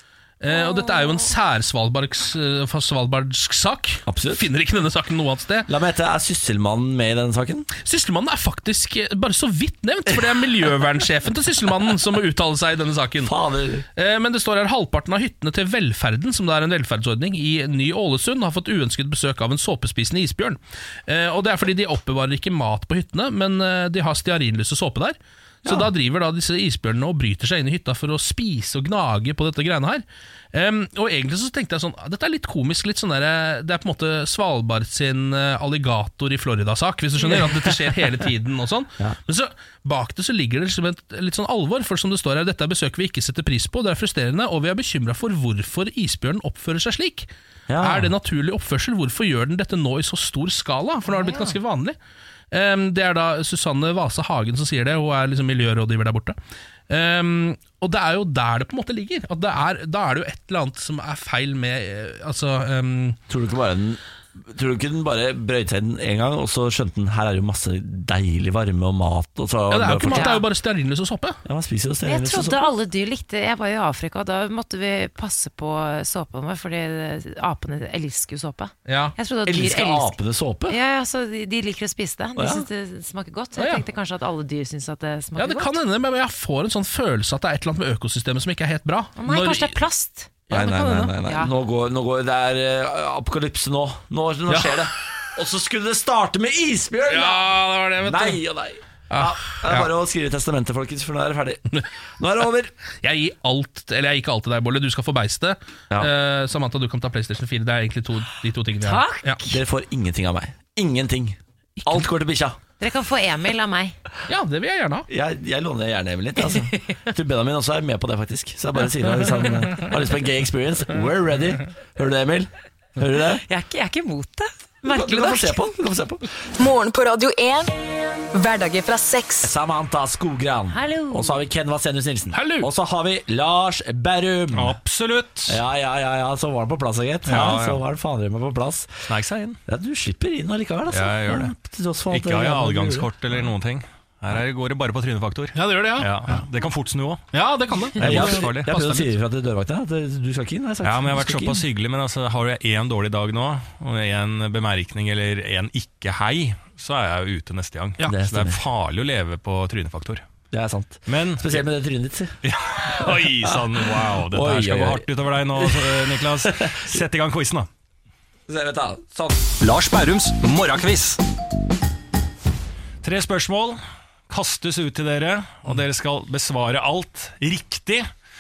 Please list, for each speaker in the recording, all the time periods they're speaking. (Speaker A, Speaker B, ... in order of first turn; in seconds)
Speaker A: 0.4-5.7, 7.8-13.3, 14.0-47.3, 47.8-52.0, 52.5-56.4, 56.9-63.2, 69.7-71.4, 78.9-79.2, 83.6-83.8, 85.4-89.8, 90.5-91.1, 94.5-94.9, 97.1-98.4, 99.1-99.9, 103.0-109.4, 114.3-115.1, 132.3-132.7, 145.6-146.4, 147.3-149.1
Speaker B: 4.1-4.5, 5.7-7.7, 13.2-13.9, 25.6-25.9, 37.3-37.9, 47.7-48.1, 63.3-70.4, 71.5-72.7, 79.5-80.8, 82.4-82.7, 90.5-102.7, 109.5-112.6, 115.1-123.4, 124.8-126.2, 129.4-134.8, 135.5-139.1, 139.7-143.1, 148.0-151.7, 158.0-158.6, 160.5-167.0, 168.5-169.5
Speaker C: 51.1-51.6, 70.1-70.4, 72.1-80.2, 80.7-85.8, 89.2-91.5, 108.8-109.6, 112.8-114.0, 116.5-117.0, 123.5-125.6, 130.7-131.4
Speaker D: 126.6-127.7, 128.3-129.5
Speaker E: 134.5-135.6, 137.3-137.8, 139.1-139.6, 140.9-141.5, 142.1-147.3, 148.0-148.7, 150.8-160.2, 161.1-161.6, 162.4-167.7, 169.6-171.2, 173.0-178.1